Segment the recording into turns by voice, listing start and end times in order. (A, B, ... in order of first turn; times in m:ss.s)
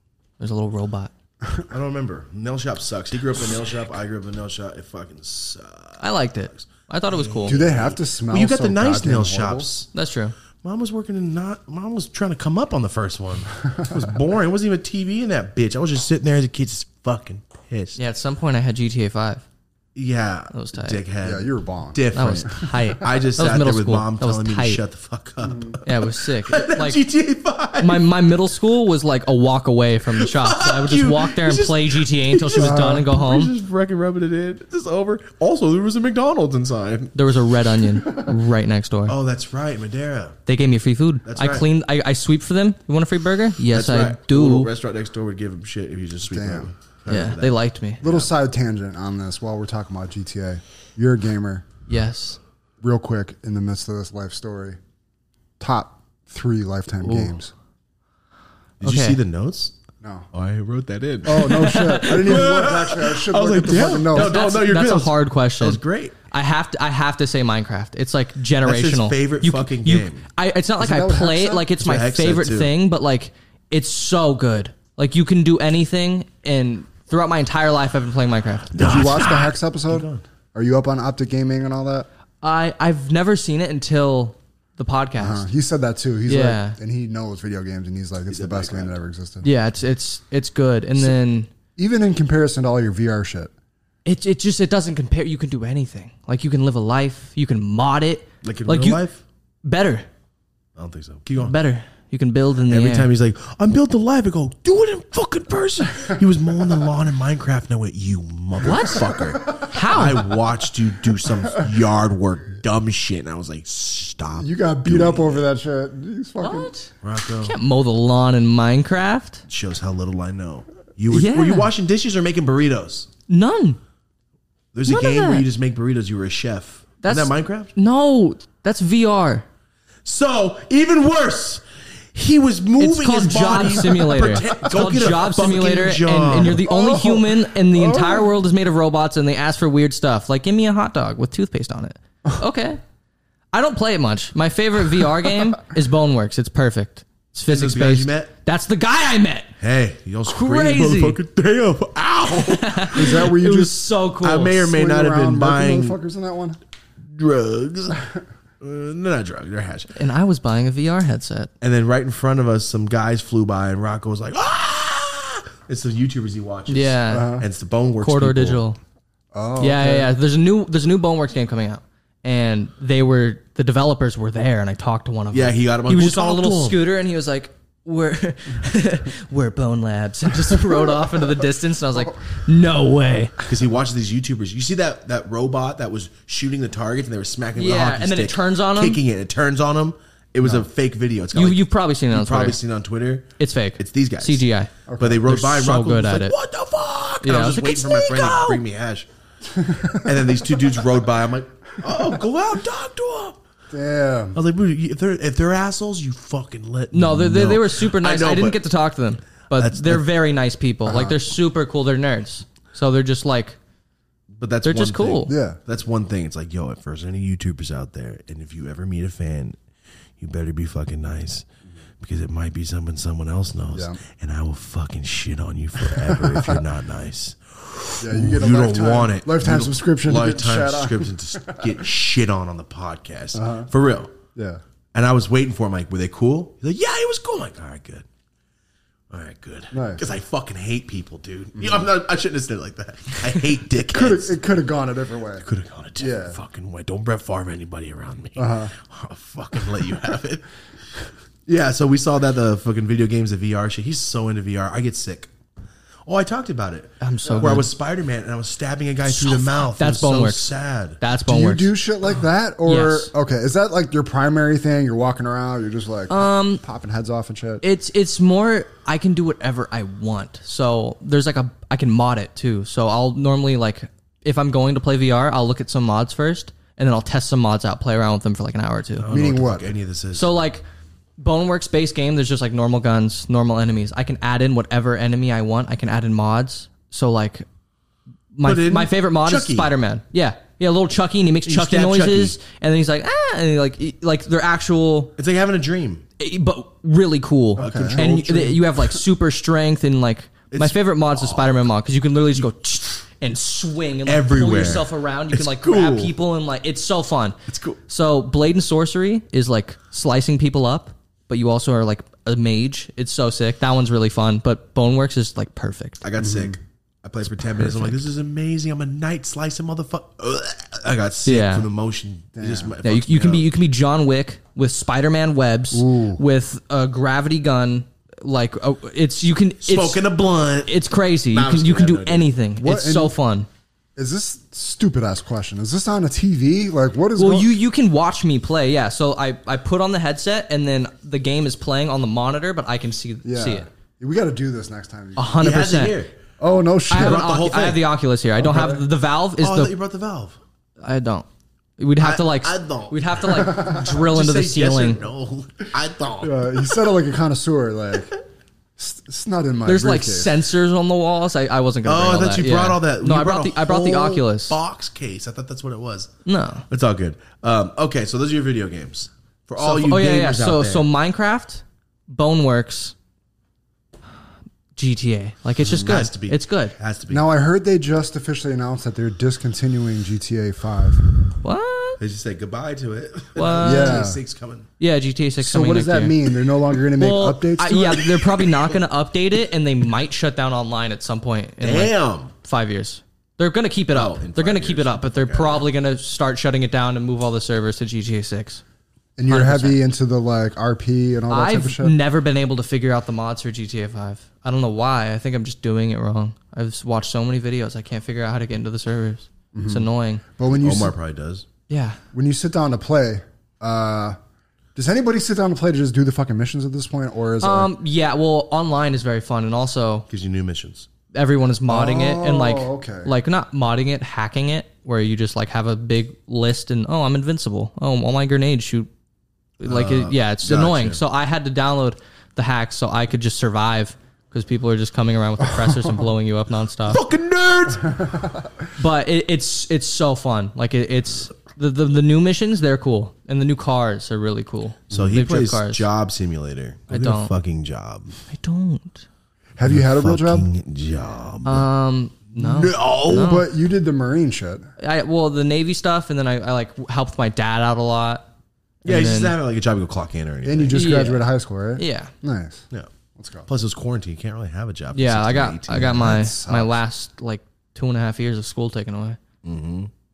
0:00.4-0:01.1 A
0:01.6-0:09.9 B
0:06.0-0:07.6 A
0:07.4-0:09.7 C
0:09.9-0:10.4 A
0:10.6-0:18.0 B
0:18.0-0:19.4 A
0:20.0-0:28.1 B
0:20.5-0:21.0 A
0:21.2-0:22.0 C
0:22.1-0:24.8 A
0:25.4-0:25.8 C
0:25.8-0:27.0 A
0:27.8-0:33.5 A
0:30.2-0:37.3 B
0:32.6-0:33.1 C
0:37.2-0:39.2 A
0:39.1-0:40.4 B
0:40.5-0:44.7 A
0:41.2-0:41.7 B
0:43.7-0:48.3 B
0:46.3-0:46.7 C
0:47.1-0:48.0 A
0:48.0-0:51.6 C
0:51.9-0:52.4 A
0:52.8-0:54.8 C
0:55.6-0:57.5 C
0:58.8-0:59.2 A
0:58.8-0:59.8 B
1:00.0-1:00.3 C
1:00.3-1:06.2 B
1:01.2-1:04.4 C
1:01.4-1:02.2 A
1:04.1-1:18.8 A
1:08.6-1:10.2 B
1:10.8-1:11.7 C
1:11.8-1:12.7 B
1:18.7-1:20.2 B
1:18.8-1:22.1 C
1:22.4-1:25.5 A
1:25.2-1:29.5 C
1:26.3-1:26.8 A
1:28.3-1:29.0 B
1:29.4-1:31.5 A
1:31.8-1:33.5 C
1:34.0-1:39.0 A
1:38.4-1:39.2 B
1:39.6-1:40.1 A
1:40.8-1:41.6 B
1:41.4-1:43.1 A
1:42.7-1:55.4 B
1:48.6-1:50.3 A
1:54.4-1:56.7 C
1:56.4-1:56.9 A
1:57.0-1:57.6 B
1:57.4-1:59.4 A
1:59.5-2:03.1 B
2:01.1-2:01.7 A
2:03.3-2:03.8 A
2:04.7-2:07.7 B
2:04.9-2:05.4 A
2:07.0-2:09.5 A
2:10.0-2:11.6 B
2:12.1-2:16.7 B
2:12.8-2:22.8 A
2:16.6-2:18.3 C
2:23.5-2:29.5 A
2:27.5-2:28.3 B
2:29.6-2:33.3 B
2:30.3-2:31.2 A
2:32.3-2:34.7 A
2:32.9-2:33.8 C
2:34.2-2:36.0 B
2:34.6-2:36.6 C
2:37.1-2:38.0 B
2:38.6-2:39.9 B
2:40.0-2:41.5 A
2:41.6-2:48.6 B
2:46.7-2:47.4 A
2:47.1-2:47.5 C
2:48.0-2:48.8 A
2:49.3-2:50.1 C
2:49.6-3:03.4 A
2:55.3-2:56.8 B
3:03.4-3:14.4 B
3:07.6-3:09.0 A
3:11.3-3:12.6 A
3:13.4-3:14.7 A
3:14.9-3:15.3 C
3:15.0-3:19.1 B
3:15.2-3:16.3 A
3:17.2-3:18.6 A
3:19.5-3:20.3 C
3:19.9-3:23.4 B
3:23.7-3:24.4 C
3:24.3-3:28.6 B
3:26.9-3:33.6 A
3:29.6-3:30.1 B
3:30.9-3:31.2 C
3:34.4-3:39.6 B
3:34.6-3:35.3 A
3:35.3-3:35.6 C
3:40.2-3:41.5 B
3:42.0-3:54.1 B
3:43.7-3:44.0 C
3:45.9-3:46.6 C
3:48.0-3:51.8 C
3:53.4-3:53.7 C
3:54.4-3:54.6 C
3:54.9-3:58.0 B
3:59.1-4:04.4 B
3:59.7-4:00.0 C
4:03.9-4:05.4 C
4:05.4-4:15.3 B
4:06.0-4:06.4 C
4:08.4-4:08.7 C
4:16.1-4:21.0 B
4:17.0-4:17.7 A
4:17.2-4:17.6 C
4:19.1-4:21.8 A
4:21.3-4:27.6 C
4:22.7-4:23.1 A
4:26.1-4:26.6 A
4:27.6-4:39.1 A
4:39.0-4:40.4 B
4:39.1-4:39.7 C
4:40.1-4:40.6 A
4:41.2-4:47.5 A
4:48.4-4:55.2 A
4:48.4-4:49.7 B
4:51.5-4:52.4 B
4:55.2-4:56.0 B
4:56.2-5:07.4 A
4:57.6-4:58.7 B
4:57.6-4:58.1 C
5:00.5-5:01.7 B
5:04.1-5:06.2 B
5:07.5-5:07.8 B
5:07.9-5:16.0 A
5:16.0-5:23.5 B
5:16.2-5:16.6 C
5:17.4-5:18.0 A
5:21.3-5:21.7 A
5:22.4-5:22.8 C
5:22.8-5:30.0 A
5:25.7-5:26.2 C
5:29.6-5:32.3 B
5:30.7-5:33.5 A
5:32.6-5:33.2 C
5:34.0-5:37.6 C
5:37.2-5:43.7 A
5:43.2-5:45.4 C
5:45.2-5:46.0 A
5:45.4-5:46.1 B
5:46.4-5:47.2 C
5:46.9-5:49.7 A
5:46.9-5:47.8 B
5:48.4-5:48.8 C
5:49.4-5:50.4 B
5:50.8-5:51.3 A
5:51.8-5:55.0 A
5:52.0-5:56.8 B
5:53.3-5:53.9 C
5:56.2-5:58.1 C
5:58.8-6:00.4 C
5:59.6-6:04.6 A
6:01.8-6:06.1 B
6:06.3-6:06.7 A
6:06.7-6:10.9 B
6:09.6-6:12.9 A
6:14.8-6:16.7 A
6:15.6-6:16.0 C
6:15.8-6:17.3 B
6:17.1-6:21.0 C
6:21.4-6:22.0 A
6:22.0-6:24.7 B
6:23.4-6:24.0 A
6:23.6-6:24.2 C
6:24.8-6:26.2 A
6:25.4-6:28.1 C
6:27.0-6:38.6 A
6:28.3-6:28.8 B
6:31.6-6:32.3 B
6:33.9-6:35.7 B
6:39.2-6:42.0 C
6:39.3-6:39.8 A
6:41.3-6:50.2 A
6:49.5-6:51.0 C
6:50.6-6:51.5 B
6:51.7-6:52.0 A
6:52.1-6:54.2 C
6:54.8-6:57.7 C
6:57.4-7:00.1 A
7:00.1-7:00.9 B
7:01.1-7:08.9 A
7:01.7-7:03.1 C
7:09.6-7:17.0 A
7:09.6-7:11.0 B
7:16.9-7:18.1 B
7:18.8-7:25.9 A
7:24.9-7:28.1 B
7:26.9-7:27.3 A
7:28.3-7:29.0 A
7:29.6-7:30.5 C
7:29.6-7:31.7 B
7:31.4-7:33.5 A
7:32.4-7:33.4 B
7:33.1-7:34.7 C
7:34.8-7:38.3 A
7:38.8-7:39.4 A
7:38.8-7:40.8 B
7:40.4-7:43.5 C
7:40.7-7:42.1 A
7:43.5-7:46.2 B
7:44.9-7:49.2 A
7:45.7-7:46.7 C
7:49.4-7:49.9 B